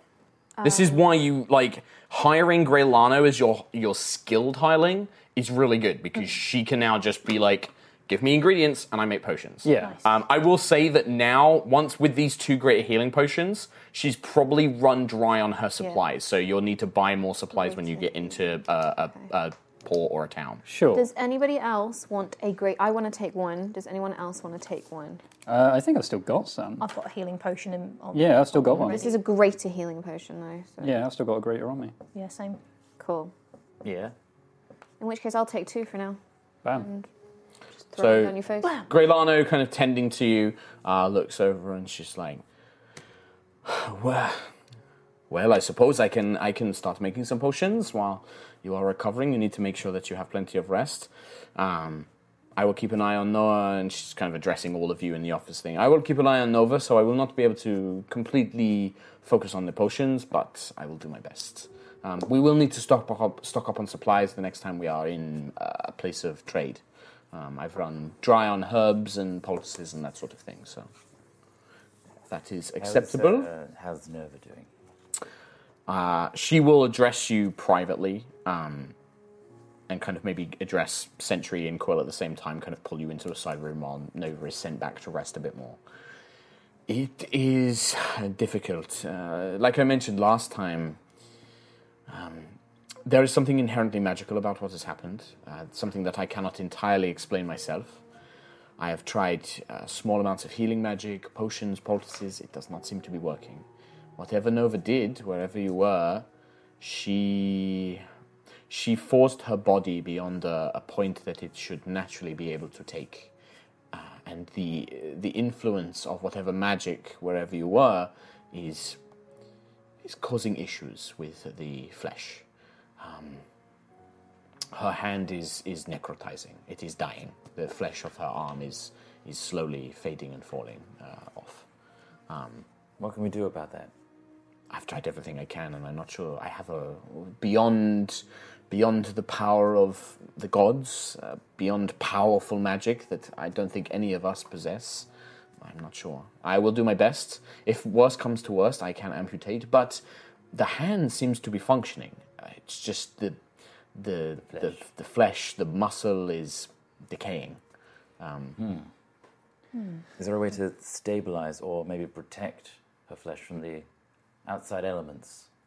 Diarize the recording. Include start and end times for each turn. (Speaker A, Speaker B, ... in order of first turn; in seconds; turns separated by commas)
Speaker A: 0.6-1.0, Speaker B: 0.6-20.6, Speaker C: 9.6-10.0, Speaker A: 17.5-18.4, Speaker C: 20.6-21.1, Speaker A: 20.9-25.2, Speaker C: 25.5-26.8, Speaker D: 26.8-29.2, Speaker C: 28.1-29.0, Speaker A: 28.9-30.9, Speaker C: 30.8-31.9, Speaker D: 32.1-32.6, Speaker A: 33.0-33.3, Speaker E: 33.8-34.1, Speaker A: 35.0-36.2, Speaker A: 36.8-37.0, Speaker A: 37.9-38.8, Speaker B: 38.0-42.4, Speaker B: 43.6-44.5, Speaker B: 45.3-66.8, Speaker B: 67.3-70.9, Speaker B: 72.3-73.5, Speaker E: 72.8-74.7, Speaker B: 75.9-78.9, Speaker B: 79.9-85.8, Speaker B: 86.9-91.0, Speaker B: 92.1-92.5, Speaker B: 93.0-98.0, Speaker B: 98.8-103.6, Speaker B: 104.2-106.2, Speaker B: 106.8-108.0, Speaker B: 108.7-113.3, Speaker B: 113.9-119.0, Speaker B: 120.0-122.4, Speaker B: 123.0-123.4, Speaker B: 124.7-131.6, Speaker B: 132.3-132.6, Speaker E: 133.0-133.9, Speaker B: 134.7-145.1, Speaker B: 145.6-150.0, Speaker B: 150.5-153.4, Speaker B: 153.9-157.6, Speaker E: 154.5-154.8, Speaker B: 158.2-158.6, Speaker E: 158.6-158.9, Speaker E: 160.2-163.8, Speaker E: 164.4-165.5